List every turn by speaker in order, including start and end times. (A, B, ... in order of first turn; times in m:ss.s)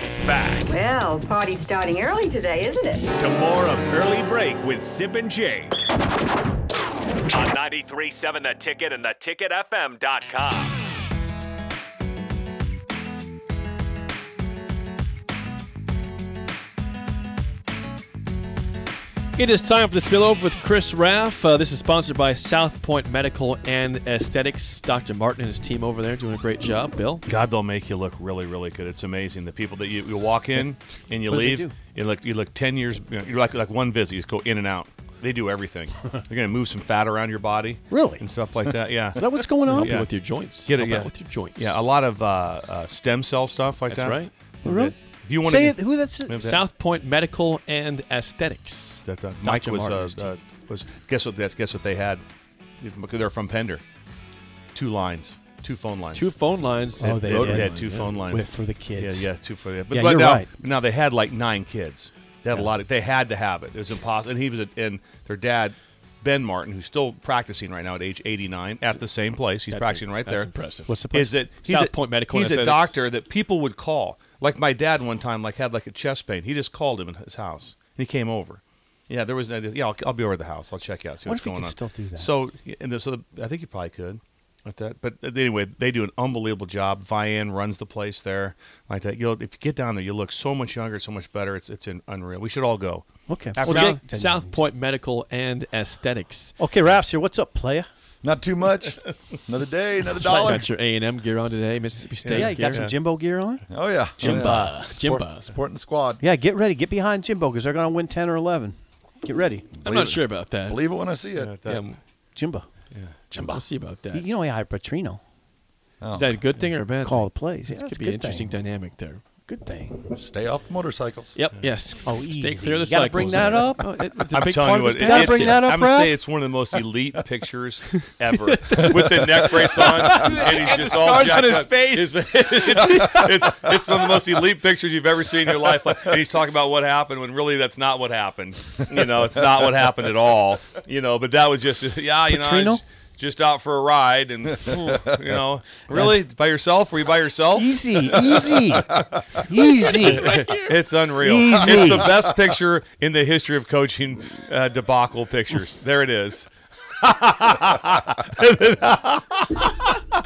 0:00.2-0:00.7 A
0:00.7-0:03.0 B
0:03.1-0:05.8 A
0:07.3-0:10.8 A
0:19.4-0:27.2 C
0:27.3-0:40.1 D
0:31.3-0:31.7 E
0:37.9-0:38.2 E
0:39.1-0:40.0 E
0:39.7-0:41.8 C
0:40.7-0:44.3 D
0:43.9-0:44.9 C
0:44.6-0:46.5 E
0:44.9-0:46.6 D
0:46.4-0:50.3 C
0:49.0-0:52.2 D
0:52.8-0:53.8 D
0:54.7-0:56.3 D
0:56.1-0:58.2 C
0:57.0-1:10.5 D
0:57.0-0:57.7 E
0:58.3-0:59.3 E
0:59.9-1:00.5 E
1:09.7-1:10.9 C
1:10.9-1:11.4 E
1:11.1-1:34.0 D
1:11.6-1:13.0 C
1:21.3-1:22.3 E
1:33.3-1:34.6 E
1:33.6-1:36.6 C
1:36.6-1:37.9 E
1:38.2-1:40.6 F
1:40.2-1:42.9 C
1:42.3-1:43.6 E
1:42.5-1:42.9 D
1:43.7-1:46.2 F
1:44.2-1:45.5 C
1:46.2-1:49.7 E
1:49.8-1:51.5 F
1:49.8-1:50.8 C
1:51.4-1:51.9 D
1:51.6-1:52.0 C
1:52.4-1:52.7 E
1:53.3-1:53.6 F
1:53.4-1:54.2 C
1:54.1-1:55.2 E
1:56.0-1:56.4 F
1:56.1-1:59.2 C
1:57.0-1:58.5 E
1:59.5-2:00.1 E
2:00.0-2:01.4 F
2:01.4-2:05.6 C
2:02.0-2:04.2 E
2:04.3-2:29.1 D
2:05.0-2:06.2 E
2:08.5-2:13.2 C
2:22.3-2:22.8 E
2:27.5-2:30.3 E
2:29.6-2:30.9 C
2:29.8-2:36.5 D
2:31.2-2:32.1 E
2:37.0-2:40.0 D